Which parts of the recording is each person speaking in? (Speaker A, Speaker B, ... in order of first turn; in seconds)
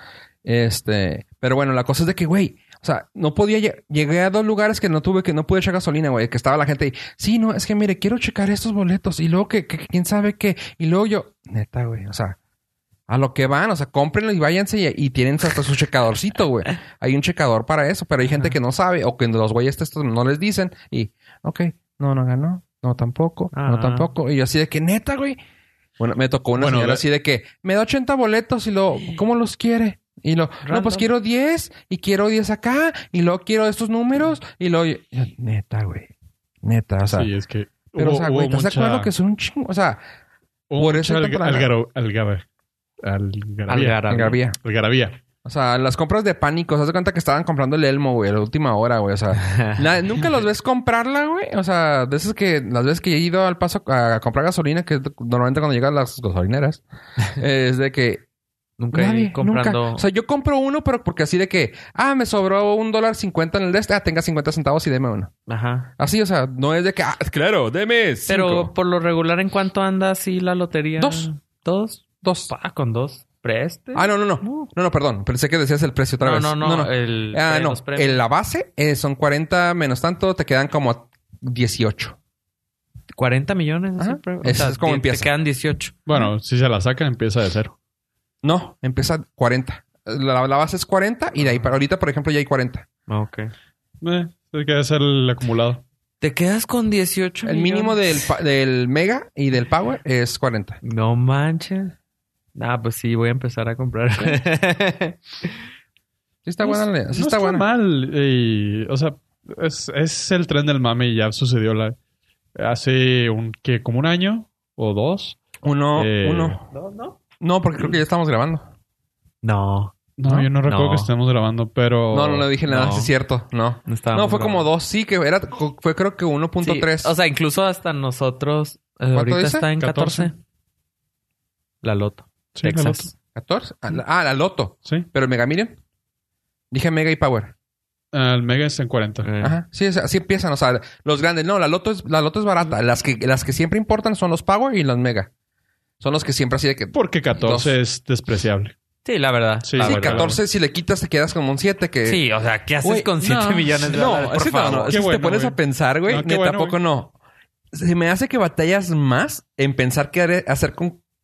Speaker A: 0.4-12.4, 13.1-25.4, 26.0-36.1, 36.6-37.3, 38.0-40.0, 40.8-41.7, 44.1-44.6, 45.4-56.8, 57.4-58.2, 58.9-65.3, 66.0-68.7, 71.0-71.3, 72.2-72.5, 73.9-82.2, 84.0-85.3, 88.4-92.8, 97.4-100.8, 106.5-107.7, 115.6-116.6, 117.4-118.6, 122.1-127.1, 129.1-129.7, 133.3-135.8, 136.7-137.5, 139.4-145.3, 146.0-147.7, 149.8-152.2, 152.8-157.1, 157.7-161.0
Speaker B: 23.5-24.1, 30.6-31.1, 43.7-44.4, 49.4-49.8, 58.8-60.0, 65.5-65.9, 68.3-74.7, 76.2-78.2, 83.1-86.0, 93.1-93.5, 96.2-98.0, 100.8-101.9, 102.5-105.5, 116.7-117.2, 119.4-119.9, 120.6-121.1, 122.7-123.1, 123.8-124.7, 126.6-130.3, 131.8-133.1, 139.2-139.6, 149.0-150.3, 152.0-155.0
Speaker C: 26.6-27.0, 37.0-39.1, 40.7-42.4, 43.0-45.2, 86.0-87.7, 94.0-95.8, 106.6-112.0, 112.5-115.4, 115.9-116.6, 120.2-122.5, 129.8-130.3, 132.5-133.1, 138.1-139.3, 146.9-148.7, 149.6-150.4, 154.9-156.8